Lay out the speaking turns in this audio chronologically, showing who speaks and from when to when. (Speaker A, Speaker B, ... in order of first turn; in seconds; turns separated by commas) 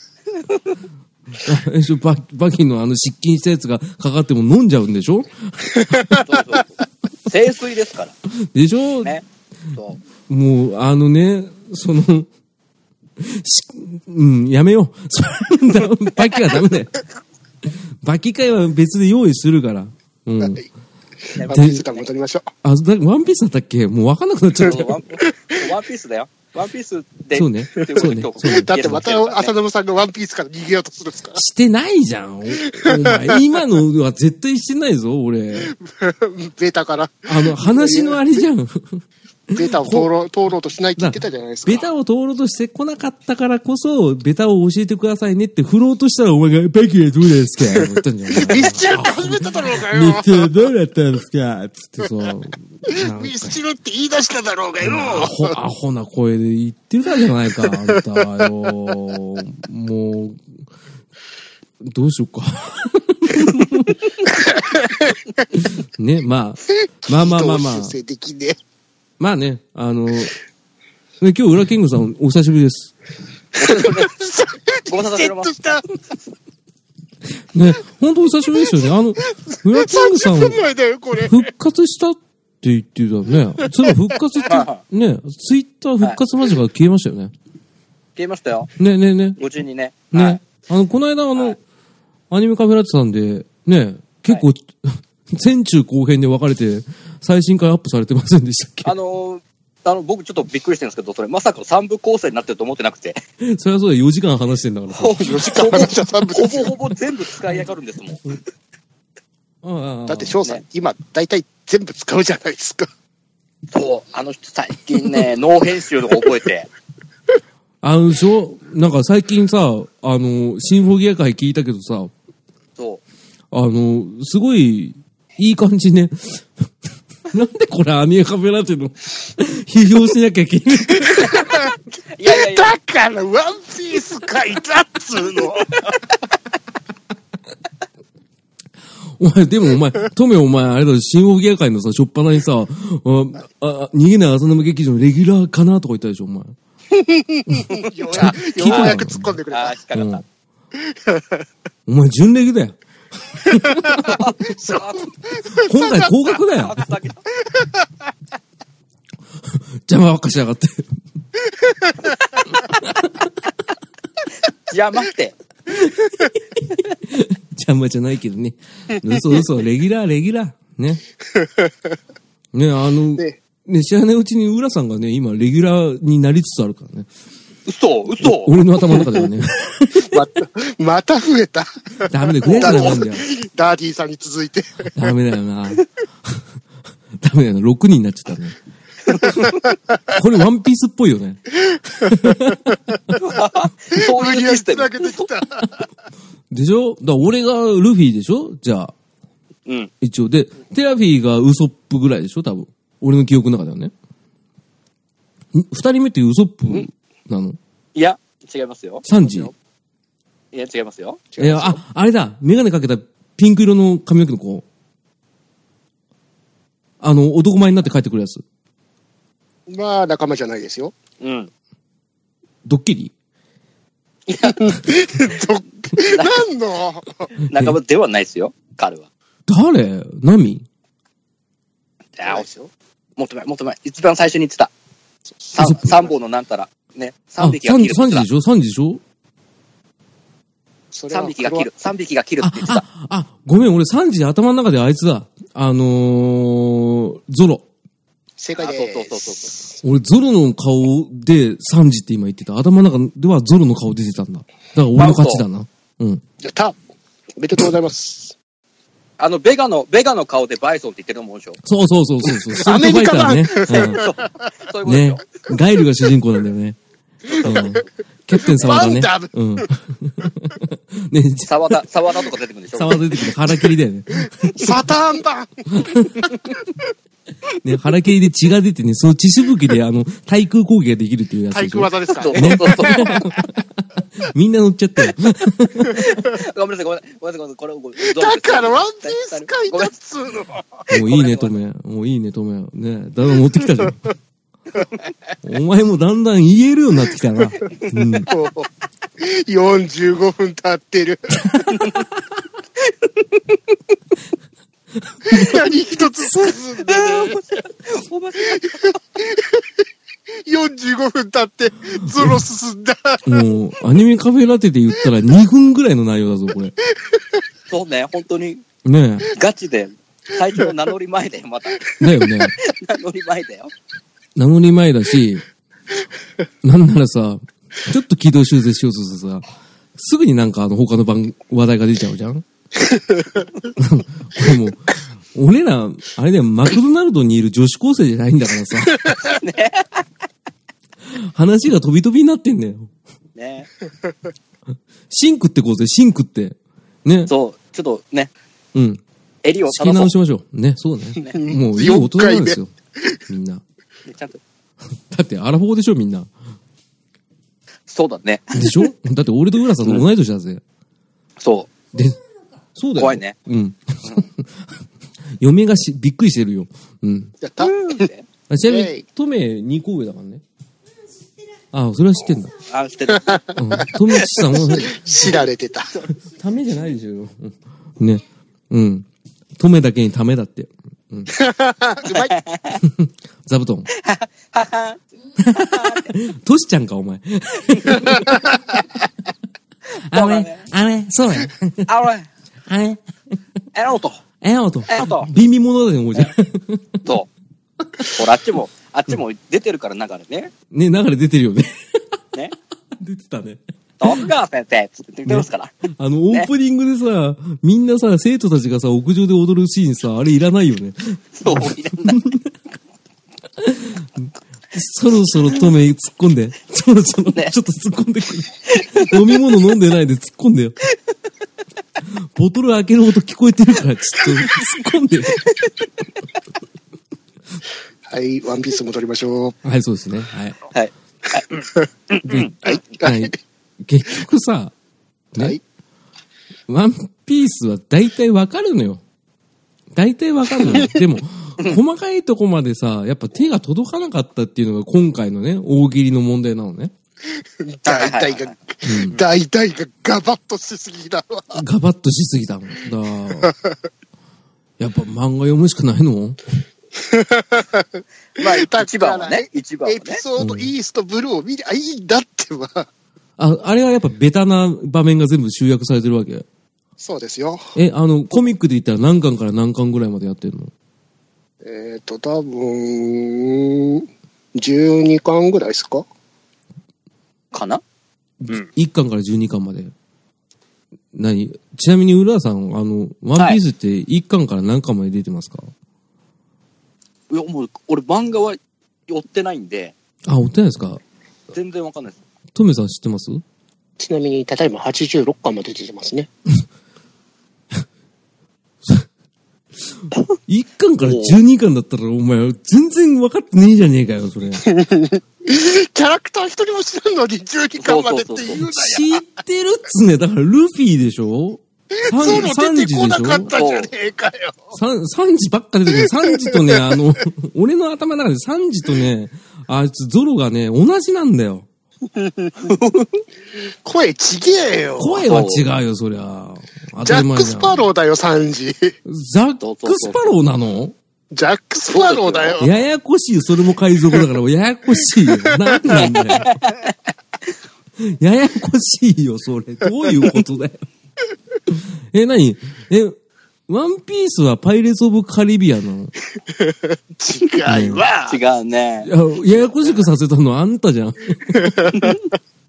Speaker A: 0.4-0.8, Speaker B: 1.4-6.2, Speaker A: 6.2-8.1, Speaker B: 8.4-9.1, Speaker A: 9.0-10.0, Speaker B: 10.3-12.3, Speaker B: 13.2-17.0, Speaker B: 17.6-20.6, Speaker A: 21.3-22.1, Speaker C: 21.3-22.5, Speaker B: 21.5-21.9, Speaker B: 22.6-24.9, Speaker A: 24.6-29.5, Speaker C: 25.2-25.6, Speaker B: 27.3-29.0, Speaker C: 28.4-31.4, Speaker B: 31.3-35.7, Speaker C: 32.6-33.4, Speaker C: 35.6-38.2, Speaker B: 37.3-40.1, Speaker C: 39.5-41.9, Speaker B: 41.0-53.6, Speaker C: 47.8-50.6, Speaker C: 52.9-55.5, Speaker B: 54.8-60.5, Speaker C: 57.6-58.2, Speaker B: 61.8-64.0, Speaker C: 64.2-65.1, Speaker B: 65.5-68.0, Speaker C: 67.0-68.6, Speaker B: 69.2-70.3, Speaker B: 71.2-72.9, Speaker A: 73.6-74.2, Speaker C: 73.6-75.8, Speaker A: 74.9-76.0, Speaker B: 77.5-80.6, Speaker C: 79.5-81.5, Speaker B: 81.1-87.3, Speaker C: 83.6-84.1, Speaker A: 84.5-84.8, Speaker A: 88.2-88.7, Speaker B: 88.8-89.4, Speaker A: 89.4-90.4, Speaker B: 90.1-91.6, Speaker B: 92.3-98.9, Speaker A: 98.8-103.2, Speaker B: 103.4-105.7, Speaker A: 104.9-108.3, Speaker C: 105.2-106.8, Speaker B: 109.6-110.4, Speaker C: 110.1-112.9, Speaker A: 113.7-116.7, Speaker B: 117.8-122.1, Speaker A: 122.8-123.0, Speaker B: 123.5-126.7, Speaker B: 127.3-131.5, Speaker C: 131.2-131.7, Speaker A: 132.1-132.7, Speaker C: 132.2-136.0, Speaker B: 139.2-146.6, Speaker C: 146.9-149.8, Speaker B: 147.5-149.4, Speaker A: 147.7-149.0, Speaker A: 149.5-150.2, Speaker B: 149.9-150.2, Speaker C: 150.9-151.4, Speaker B: 151.9-154.2, Speaker A: 154.0-155.1, Speaker C: 154.6-155.9, Speaker B: 155.5-156.9, Speaker A: 156.3-157.2, Speaker C: 157.4-157.9, Speaker B: 159.4-161.0, Speaker B: 162.8-163.3, Speaker A: 164.7-165.3, Speaker B: 165.7-171.0, Speaker C: 171.3-171.7, Speaker B: 172.5-177.1, Speaker A: 177.7-178.6, Speaker B: 178.2-180.2, Speaker C: 180.0-184.9, Speaker B: 182.1-183.2, Speaker A: 182.4-183.0, Speaker B: 184.9-186.4, Speaker B: 187.2-188.6, Speaker A: 189.1-189.6, Speaker B: 190.1-192.8, Speaker C: 191.7-192.1, Speaker A: 193.1-195.2, Speaker C: 193.9-195.8, Speaker B: 196.5-198.9, Speaker A: 199.7-199.9, Speaker B: 200.0-203.9, Speaker B: 205.5-207.6, Speaker A: 207.9-209.5, Speaker B: 209.0-209.5, Speaker A: 210.5-211.2, Speaker C: 211.3-211.8, Speaker B: 211.4-214.6, Speaker B: 217.0-218.4, Speaker C: 219.7-220.9, Speaker A: 221.2-221.5, Speaker B: 222.6-223.1, Speaker A: 224.3-224.7, Speaker C: 224.4-227.3, Speaker A: 226.0-226.4, Speaker A: 227.5-229.1, Speaker B: 229.5-230.6, Speaker A: 232.2-232.4, Speaker C: 232.2-232.7, Speaker A: 233.2-234.7, Speaker C: 235.4-235.7, Speaker A: 235.5-238.3, Speaker B: 235.6-236.0, Speaker B: 237.4-239.0, Speaker C: 240.9-241.7, Speaker A: 241.1-242.8, Speaker B: 242.4-247.6, Speaker C: 248.4-249.8, Speaker A: 248.6-249.5, Speaker B: 249.8-256.2, Speaker A: 254.9-255.4, Speaker C: 256.4-256.7, Speaker C: 257.4-258.3, Speaker A: 259.2-261.6, Speaker B: 261.6-264.0, Speaker C: 262.5-264.1, Speaker A: 263.7-265.3, Speaker B: 264.8-266.8, Speaker C: 267.3-267.8, Speaker B: 267.4-271.6, Speaker C: 268.4-269.3, Speaker A: 271.4-273.0, Speaker B: 272.7-274.8, Speaker C: 274.5-276.7, Speaker B: 275.7-276.3, Speaker B: 277.6-286.1, Speaker C: 281.5-283.4, Speaker A: 282.2-283.2, Speaker A: 285.9-289.9, Speaker C: 288.0-290.6, Speaker B: 290.9-294.0, Speaker A: 290.9-291.5, Speaker B: 295.4-298.3, Speaker C: 298.3-298.7, Speaker C: 299.2-301.8, Speaker B: 305.0-305.6, Speaker C: 305.3-307.4, Speaker A: 306.5-309.0, Speaker C: 308.5-309.6, Speaker C: 310.4-313.2, Speaker B: 313.2-316.7, Speaker A: 317.7-318.6, Speaker B: 318.8-319.3, Speaker A: 319.3-321.9, Speaker B: 322.0-322.5, Speaker A: 322.6-323.7, Speaker B: 324.4-325.4, Speaker B: 326.6-329.4, Speaker B: 329.9-332.4, Speaker B: 333.8-339.1, Speaker A: 339.2-340.0, Speaker B: 341.1-342.9, Speaker A: 343.4-343.7, Speaker B: 345.1-347.3, Speaker A: 347.3-348.3, Speaker B: 348.7-349.0, Speaker A: 349.4-350.1, Speaker B: 349.7-352.7, Speaker C: 351.3-353.2, Speaker B: 353.3-353.6, Speaker A: 354.1-354.4, Speaker B: 354.9-356.3, Speaker A: 357.9-358.9, Speaker B: 358.5-360.6, Speaker A: 361.4-361.7, Speaker B: 361.9-362.2, Speaker B: 362.7-364.7, Speaker A: 363.0-363.3, Speaker B: 365.4-367.3, Speaker C: 367.4-368.1, Speaker A: 367.6-368.2, Speaker B: 368.5-370.4, Speaker C: 368.6-369.0, Speaker B: 371.7-372.5, Speaker A: 372.7-373.5, Speaker B: 373.6-375.0, Speaker A: 374.1-374.6, Speaker C: 374.5-375.9, Speaker B: 376.2-379.1, Speaker B: 379.6-381.3, Speaker C: 381.3-382.3, Speaker A: 382.0-382.8, Speaker B: 382.8-383.9, Speaker A: 383.9-385.0, Speaker B: 385.4-388.5, Speaker A: 385.5-386.1, Speaker A: 387.8-388.1, Speaker B: 389.9-391.9, Speaker A: 390.1-390.7, Speaker A: 391.9-392.3, Speaker B: 392.7-393.4, Speaker A: 393.7-394.2, Speaker B: 394.4-397.0, Speaker A: 394.9-395.3, Speaker A: 397.0-397.3, Speaker A: 398.1-400.5, Speaker B: 400.7-402.0, Speaker B: 403.0-404.3, Speaker A: 404.0-405.7, Speaker B: 405.2-412.5, Speaker A: 411.4-412.2, Speaker B: 413.6-420.8, Speaker A: 418.7-419.1, Speaker B: 422.1-425.4, Speaker A: 425.3-425.8, Speaker C: 428.1-429.6, Speaker B: 429.6-430.6, Speaker A: 430.7-432.6, Speaker B: 432.2-434.7, Speaker C: 432.6-433.3, Speaker B: 435.3-435.6, Speaker B: 436.7-439.0, Speaker B: 439.9-446.9, Speaker C: 447.6-451.6, Speaker A: 447.8-448.6, Speaker B: 448.8-449.1, Speaker B: 451.5-453.5, Speaker C: 453.4-453.7, Speaker B: 454.8-456.4, Speaker C: 456.9-462.9, Speaker A: 458.4-460.2, Speaker B: 460.4-460.7, Speaker B: 463.4-466.4, Speaker C: 467.0-467.7, Speaker B: 467.7-470.7, Speaker C: 471.6-476.0, Speaker A: 477.5-477.8, Speaker B: 478.4-479.9, Speaker B: 481.1-485.7, Speaker A: 487.3-489.9, Speaker B: 490.2-491.0, Speaker A: 491.5-492.2, Speaker B: 492.5-493.4, Speaker C: 494.0-496.3, Speaker B: 500.0-504.6, Speaker A: 501.0-501.4, Speaker C: 504.6-509.2, Speaker A: 507.8-508.6, Speaker B: 508.6-513.5, Speaker C: 511.9-514.7, Speaker A: 513.5-513.9, Speaker B: 514.7-521.7, Speaker C: 516.0-517.0, Speaker C: 522.1-522.8, Speaker A: 522.6-523.0, Speaker C: 523.8-525.2, Speaker B: 525.0-527.9, Speaker A: 525.2-525.6, Speaker C: 527.0-528.9, Speaker B: 529.0-530.9, Speaker A: 529.6-530.2, Speaker C: 531.3-532.7, Speaker A: 531.9-532.6, Speaker B: 532.6-536.5, Speaker C: 535.3-535.8, Speaker A: 535.9-536.9, Speaker B: 538.0-540.8, Speaker B: 541.7-543.1, Speaker B: 543.7-546.1, Speaker C: 546.6-548.4, Speaker B: 547.6-548.0, Speaker A: 548.2-550.0, Speaker B: 549.0-552.0, Speaker A: 551.9-552.2